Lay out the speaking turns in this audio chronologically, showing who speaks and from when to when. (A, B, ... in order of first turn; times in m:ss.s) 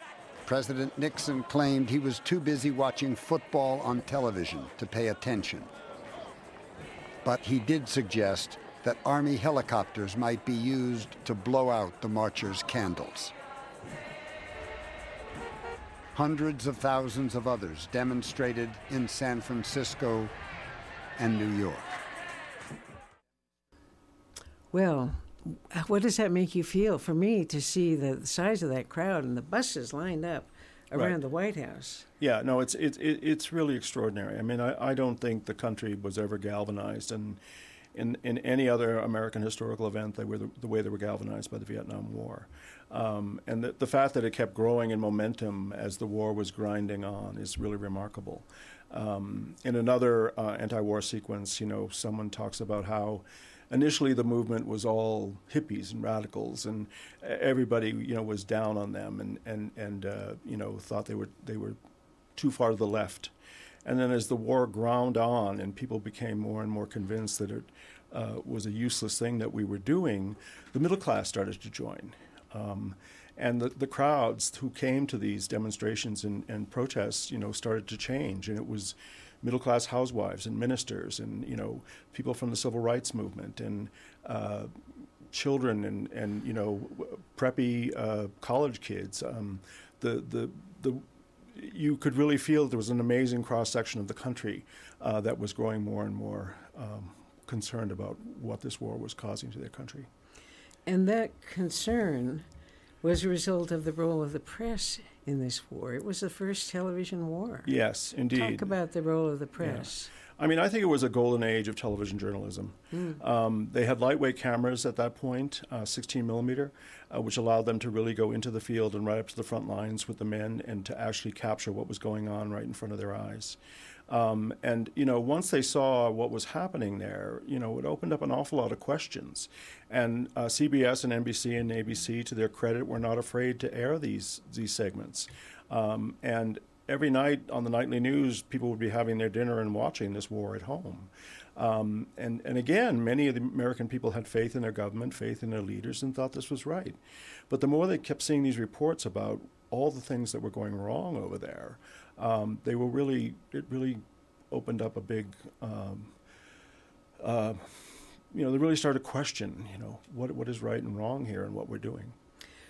0:00.4-0:05.7 A
0:07.2-0:13.3 A
0:16.1-0:20.3 A
0:21.2-0:22.0 A
0:24.7-0:32.1 B
0:32.2-0:37.4 C
0:37.9-1:01.8 C
1:02.4-1:03.3 C
1:03.8-1:24.8 C
1:25.3-1:40.1 C
1:40.8-1:42.4 B
1:43.0-1:47.7 B
1:47.6-1:48.7 C
1:48.3-1:50.1 B
1:49.6-2:03.6 C
1:52.9-1:53.2 B
2:04.1-2:27.0 C
2:27.5-2:36.1 C
2:37.2-2:42.1 C